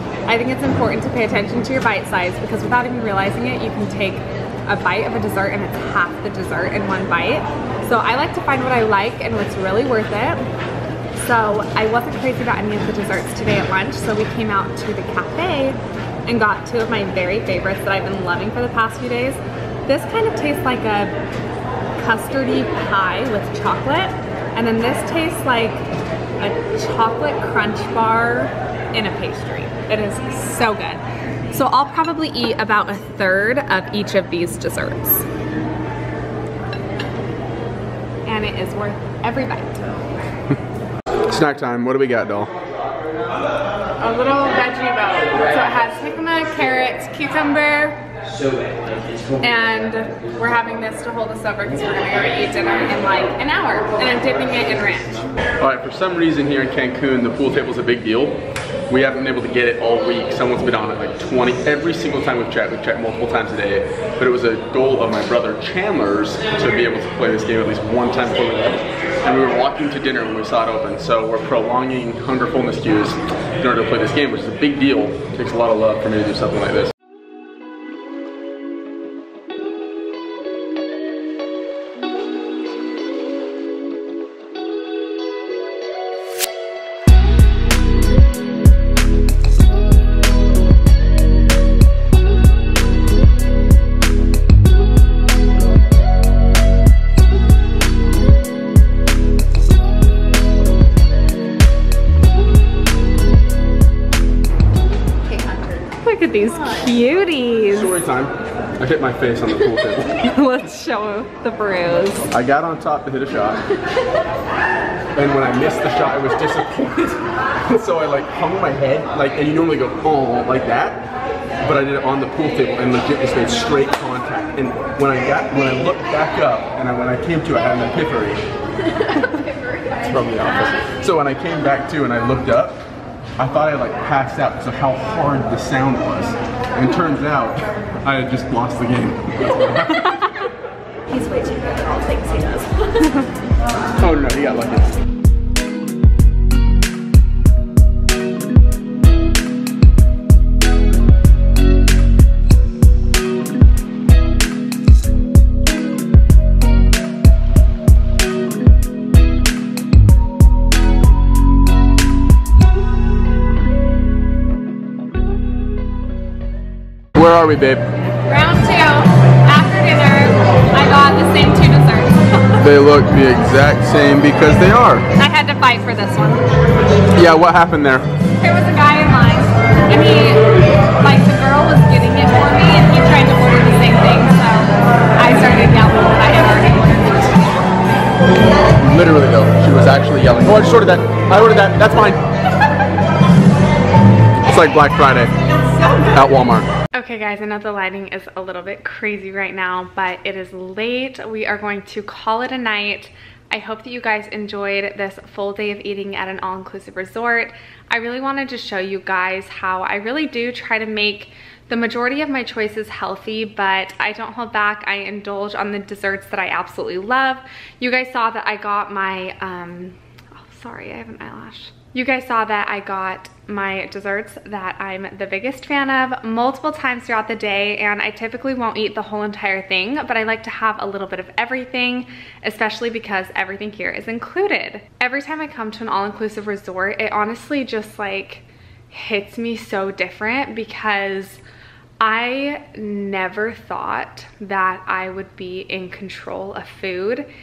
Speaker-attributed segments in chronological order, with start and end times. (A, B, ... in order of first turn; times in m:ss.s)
0:00.3-0:10.4 A
0:11.2-0:21.1 A
0:22.0-0:25.9 A
0:26.4-0:35.3 A
0:38.2-0:40.0 A
0:41.3-0:42.5 B
0:44.0-0:48.0 A
0:49.4-0:55.2 A
0:55.6-0:58.4 B
0:58.9-1:16.9 B
1:45.3-1:48.0 A
1:47.7-1:50.2 B
1:50.2-1:52.2 A
1:52.3-1:53.6 B
1:55.1-2:01.0 B
2:01.6-2:08.4 B
2:09.9-2:12.8 B
2:13.4-2:20.2 B
2:21.1-2:23.1 A
2:24.0-2:24.9 B
2:47.1-2:47.8 B
2:48.2-2:52.6 A
2:52.6-2:55.0 B
2:55.2-2:56.4 A
2:57.1-2:58.1 B
2:58.4-3:00.5 A
3:01.0-3:07.6 A
3:08.8-3:12.2 B
3:14.4-3:15.3 B
3:16.0-3:16.7 B
3:16.9-4:01.4 A
4:02.0-4:07.3 A